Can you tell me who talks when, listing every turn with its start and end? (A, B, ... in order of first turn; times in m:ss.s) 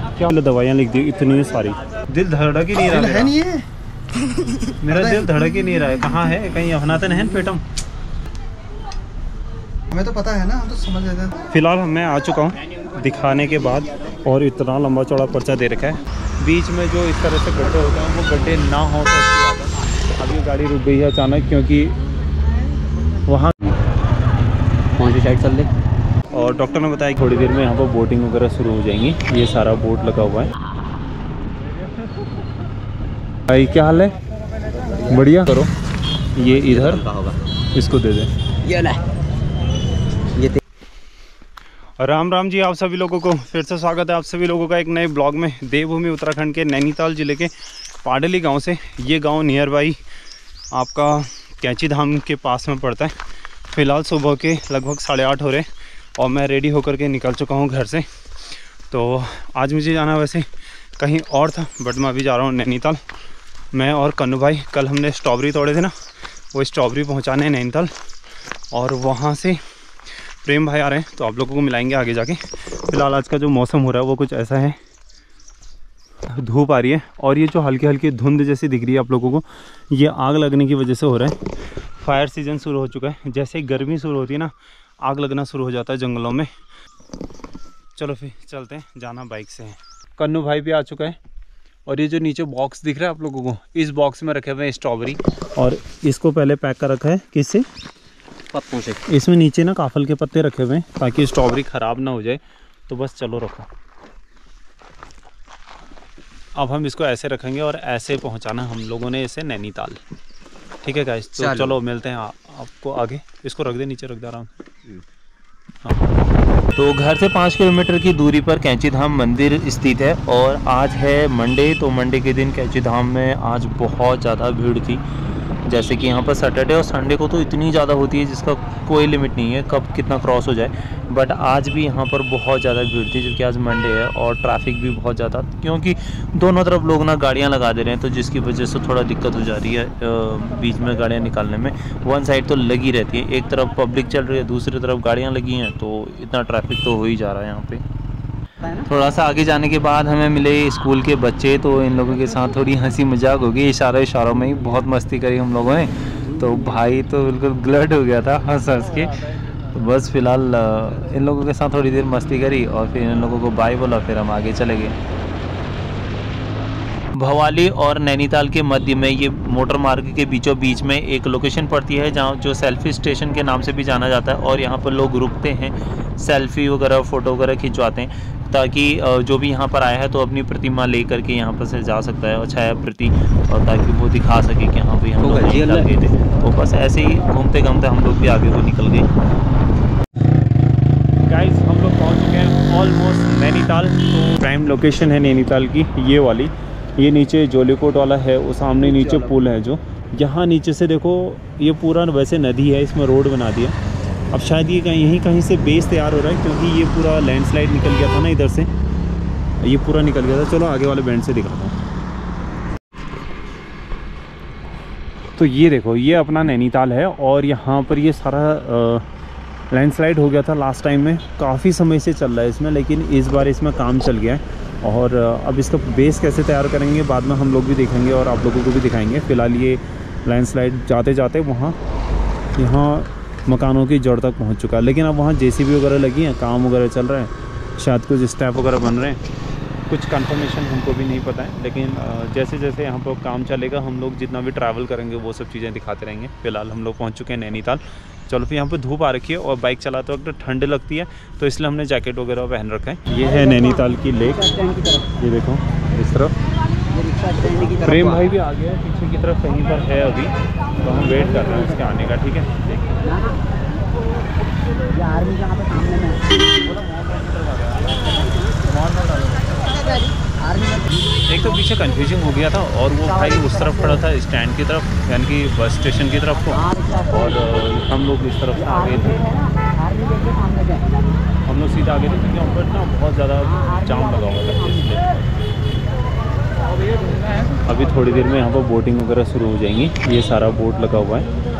0:00.2-0:03.3 A
0:02.8-0:03.7 B
0:04.8-0:07.6 A
0:04.9-0:05.3 B
0:09.9-0:11.4 B
0:11.5-0:22.0 A
0:23.3-0:23.6 A
0:25.0-0:25.7 C
0:26.3-0:30.5 A
0:33.5-0:34.1 A
0:35.1-0:35.7 A
0:36.4-0:37.1 A
0:36.4-0:37.4 C
0:37.7-0:38.3 A
0:38.6-0:39.0 C
0:42.0-0:47.5 A
0:48.0-0:50.0 A
0:50.7-0:53.1 A
0:53.7-0:55.6 A
0:56.2-0:58.0 A
0:58.9-1:00.4 A
1:01.0-1:03.0 A
1:03.7-1:05.9 A
1:06.5-1:07.9 A
1:08.7-1:09.6 A
1:10.4-1:14.8 A
1:16.3-1:21.3 A
1:22.0-1:26.5 A
1:28.0-1:31.2 A
1:31.9-1:37.6 A
1:38.5-1:39.0 C
1:39.1-1:43.7 A
1:46.6-1:50.0 A
1:50.8-1:54.5 A
1:51.4-1:51.7 C
1:56.8-2:05.0 A
2:05.7-2:27.8 A
2:28.6-2:28.9 C
2:28.9-2:45.0 A
2:47.2-3:09.1 A
3:05.2-3:05.9 C
3:11.3-3:23.8 A
3:18.8-3:19.3 C
3:24.3-3:28.7 A
3:29.6-3:31.7 A
3:35.4-3:39.0 A
3:39.7-3:51.8 A
3:52.6-3:59.2 A
3:59.9-4:14.5 A
4:13.2-4:15.1 C
4:15.2-4:16.3 A
4:16.9-4:18.2 C
4:17.8-4:22.7 A
4:23.0-4:23.4 C
4:24.9-4:26.2 C
4:26.6-4:29.8 A
4:30.4-4:31.0 C
4:31.3-4:39.2 A
4:33.0-4:34.0 C
4:36.5-4:37.5 C
4:38.6-4:40.9 C
4:41.5-4:45.2 A
4:43.4-4:44.9 C
4:47.7-4:51.3 A